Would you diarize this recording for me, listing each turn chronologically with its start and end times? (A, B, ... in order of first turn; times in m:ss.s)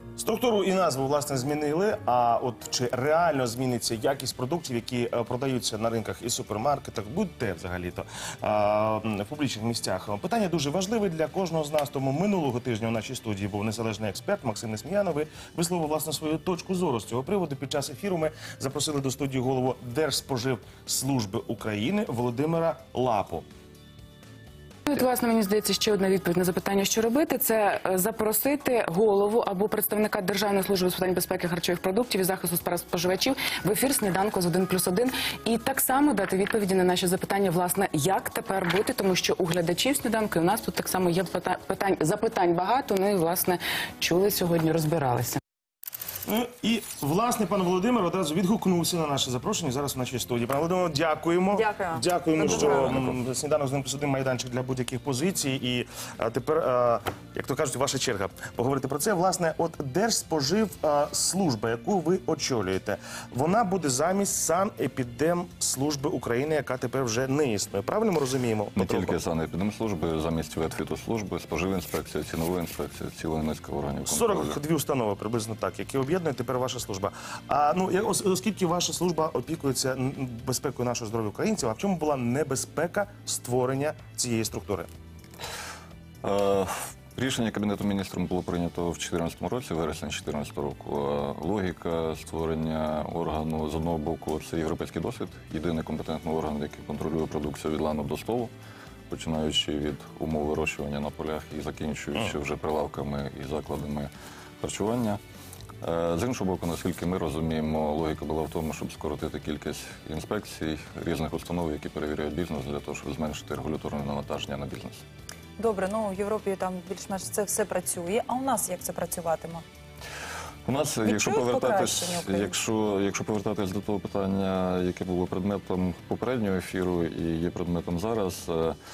0:00.2-0:23.4 A
0:24.9-0:45.4 B
0:46.2-1:09.2 A
0:51.5-0:52.9 C
0:52.4-0:53.2 D
1:08.8-1:14.6 D
1:14.1-1:24.9 A
1:26.2-1:38.5 D
1:39.1-1:44.1 D
1:44.6-1:45.2 D
1:45.8-1:55.0 D
1:55.6-1:59.6 C
2:00.6-2:08.8 D
2:01.0-2:02.6 C